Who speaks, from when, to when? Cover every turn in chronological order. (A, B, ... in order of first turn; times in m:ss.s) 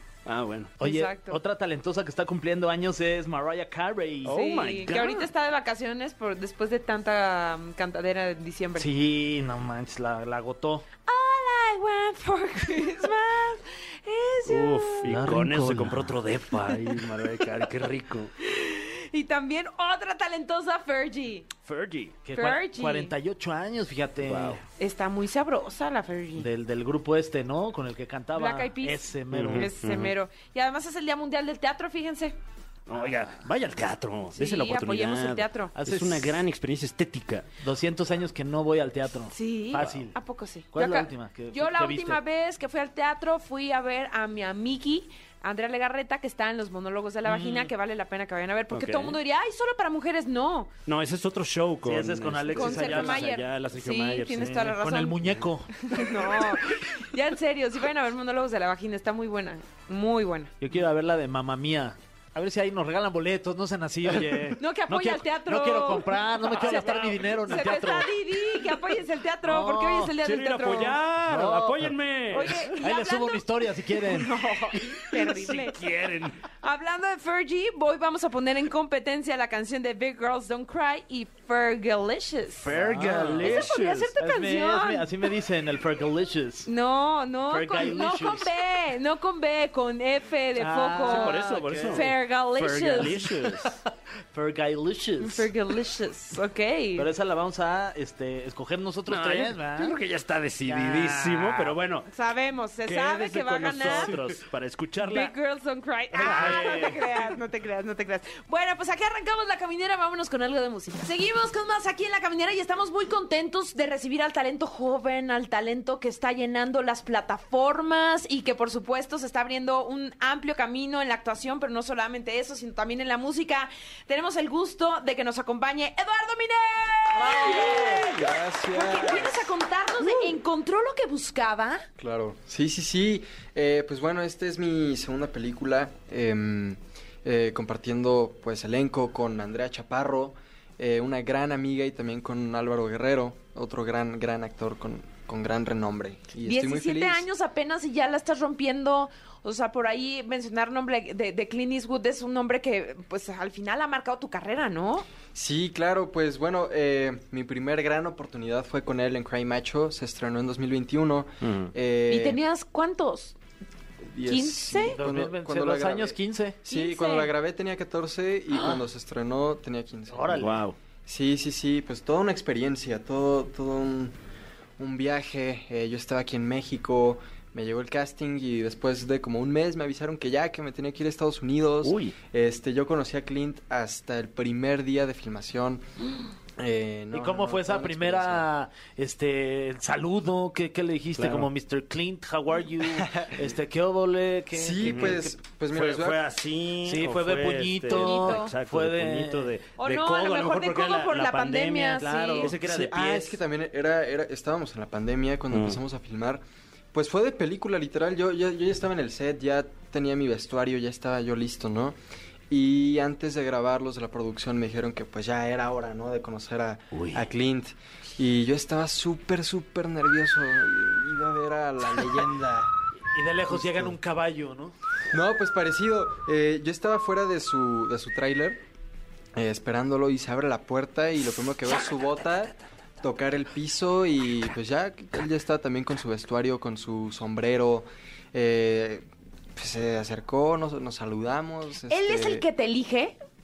0:00.2-0:00.8 A
0:00.8-0:01.4 B
0:00.8-0:04.3 C
0:04.2-0:05.3 A
0:04.3-0:08.9 B
0:08.8-0:10.9 C
0:11.1-0:15.2 B
0:14.4-0:18.3 A
0:15.1-0:16.2 C
0:16.7-0:17.0 B
0:18.4-0:21.5 B
0:21.6-0:22.2 A
0:22.2-0:24.6 C
0:22.4-0:23.1 B
0:24.2-0:24.6 A
0:24.8-0:26.5 B
0:26.4-0:29.7 C
0:28.4-0:32.4 B
0:29.3-0:30.1 A
0:32.9-0:37.5 A
0:34.4-0:35.7 B
0:35.8-0:36.4 C
0:37.6-0:40.1 C
0:39.3-0:50.7 B
0:39.8-0:40.0 A
0:40.7-0:42.2 C
0:47.2-0:47.7 C
0:48.7-0:49.2 A
0:50.9-0:54.7 A
0:51.8-0:53.3 C
0:52.5-0:55.2 B
0:54.4-0:56.4 C
0:55.8-1:00.6 B
1:00.6-1:08.1 C
1:04.6-1:11.0 B
1:09.4-1:10.1 C
1:10.2-1:12.7 A
1:11.2-1:12.0 C
1:12.3-1:15.9 B
1:12.7-1:14.4 C
1:15.1-1:16.4 A
1:16.5-1:25.2 B
1:22.6-1:26.7 C
1:22.7-1:24.1 A
1:26.7-1:33.3 B
1:27.5-1:28.5 C
1:30.6-1:35.5 C
1:31.0-1:32.1 A
1:32.6-1:33.8 A
1:35.2-1:37.1 B
1:37.0-1:40.0 C
1:39.1-1:42.1 A
1:40.6-1:41.8 C
1:42.1-1:44.2 B
1:42.8-1:45.3 A
1:43.8-1:44.4 C
1:45.0-2:11.9 B
1:46.1-1:47.4 C
1:46.2-1:46.8 A
2:07.4-2:09.4 D
2:07.4-2:08.0 C
2:12.0-2:27.2 D
2:26.4-2:35.1 B
2:35.4-2:42.4 D
2:41.4-2:41.7 A
2:42.1-2:43.4 B
2:44.1-2:54.2 D
2:44.3-2:45.0 B
2:44.9-2:46.6 C
2:46.7-2:47.3 B
2:50.1-2:50.6 C
2:50.4-2:50.8 A
2:54.8-3:05.9 D
3:01.8-3:02.1 A
3:06.6-3:08.5 D
3:07.1-3:15.3 C
3:11.2-3:11.5 A
3:13.0-3:13.4 D
3:14.5-3:16.2 D
3:14.8-3:23.4 A
3:16.8-3:19.5 C
3:17.9-3:18.5 B
3:19.8-3:22.5 B
3:22.0-3:22.8 C
3:22.0-3:32.0 D
3:25.5-3:25.8 A
3:32.5-3:42.7 D
3:36.9-3:37.2 A
3:43.1-3:44.8 C
3:43.5-3:44.0 D
3:45.1-3:48.6 D
3:49.4-4:02.4 D
4:01.9-4:03.2 B